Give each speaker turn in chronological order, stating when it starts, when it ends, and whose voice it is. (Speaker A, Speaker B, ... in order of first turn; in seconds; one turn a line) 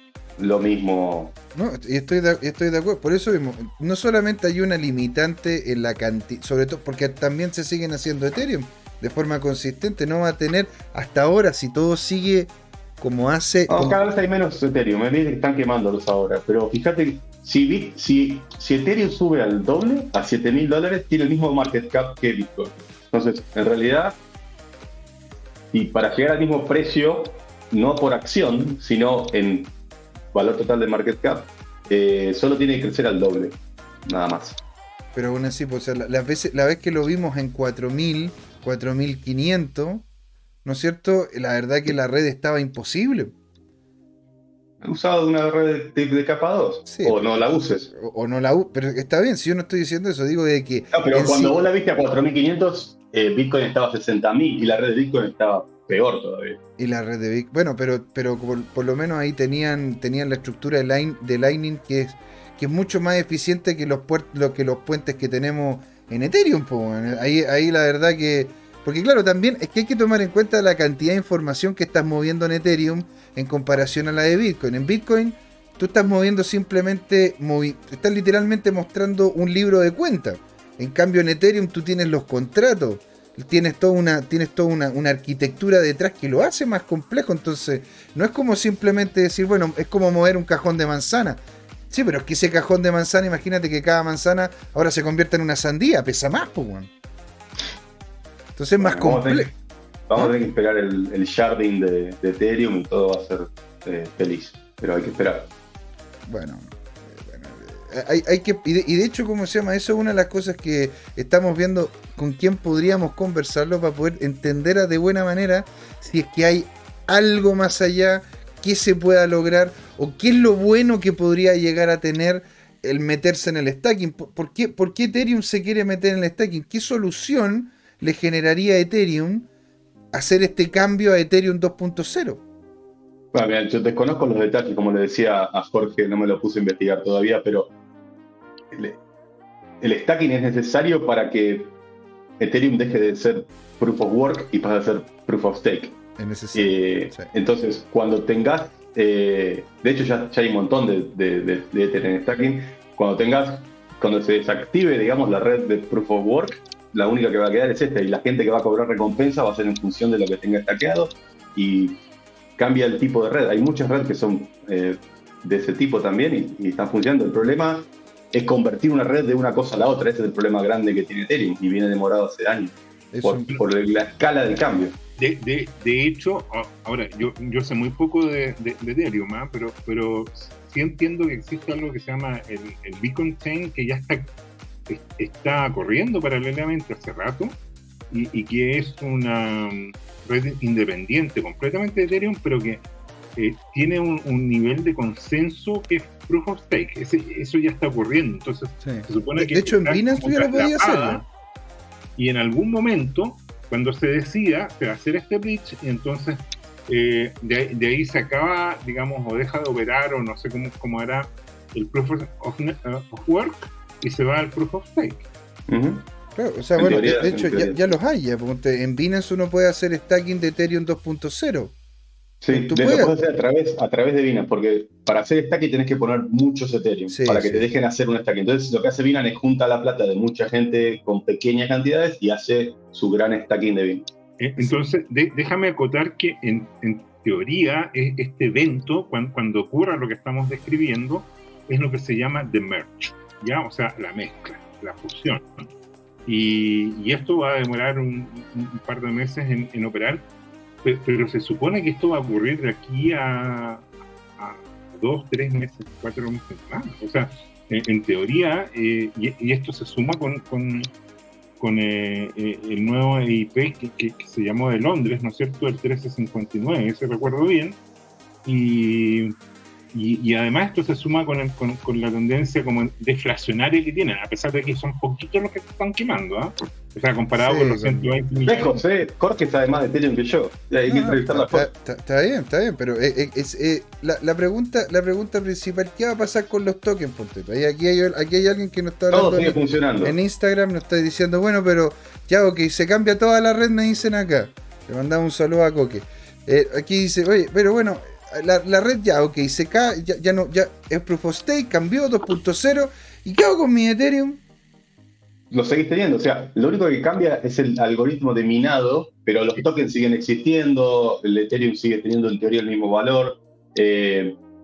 Speaker A: 0.4-1.3
Speaker B: 1.5-14.0
Speaker A: 13.7-24.2
Speaker A: 25.7-29.7
Speaker A: 30.3-34.6
Speaker B: 35.1-40.0
Speaker B: 40.6-43.3
Speaker A: 44.8-47.9
Speaker B: 46.9-51.5
Speaker A: 50.9-56.6
Speaker B: 56.8-96.9
Speaker B: 98.5-99.5
Speaker A: 98.8-99.5
Speaker A: 100.1-105.5
Speaker B: 106.2-129.5
Speaker B: 130.1-132.4
Speaker A: 133.3-137.7
Speaker A: 138.7-139.0
Speaker A: 139.8-141.7
Speaker A: 142.4-146.0
Speaker B: 146.2-147.3
Speaker A: 146.5-162.0
Speaker A: 162.6-174.9
Speaker B: 173.1-173.6
Speaker C: 175.2-184.3
Speaker C: 184.9-187.6
Speaker C: 188.1-201.2
Speaker B: 198.8-201.2
Speaker C: 202.2-215.3
Speaker A: 215.7-216.0
Speaker B: 216.3-221.8
Speaker A: 216.8-217.8
Speaker A: 222.4-234.1
Speaker B: 222.5-223.1
Speaker B: 227.1-227.6
Speaker C: 234.4-245.4
Speaker C: 246.2-250.2
Speaker C: 250.8-253.8
Speaker C: 254.4-260.9
Speaker C: 261.6-267.8
Speaker C: 268.4-269.3
Speaker C: 269.9-278.8
Speaker B: 277.4-278.1
Speaker A: 278.5-281.7
Speaker B: 280.9-304.4
Speaker A: 289.1-290.1
Speaker A: 305.5-314.4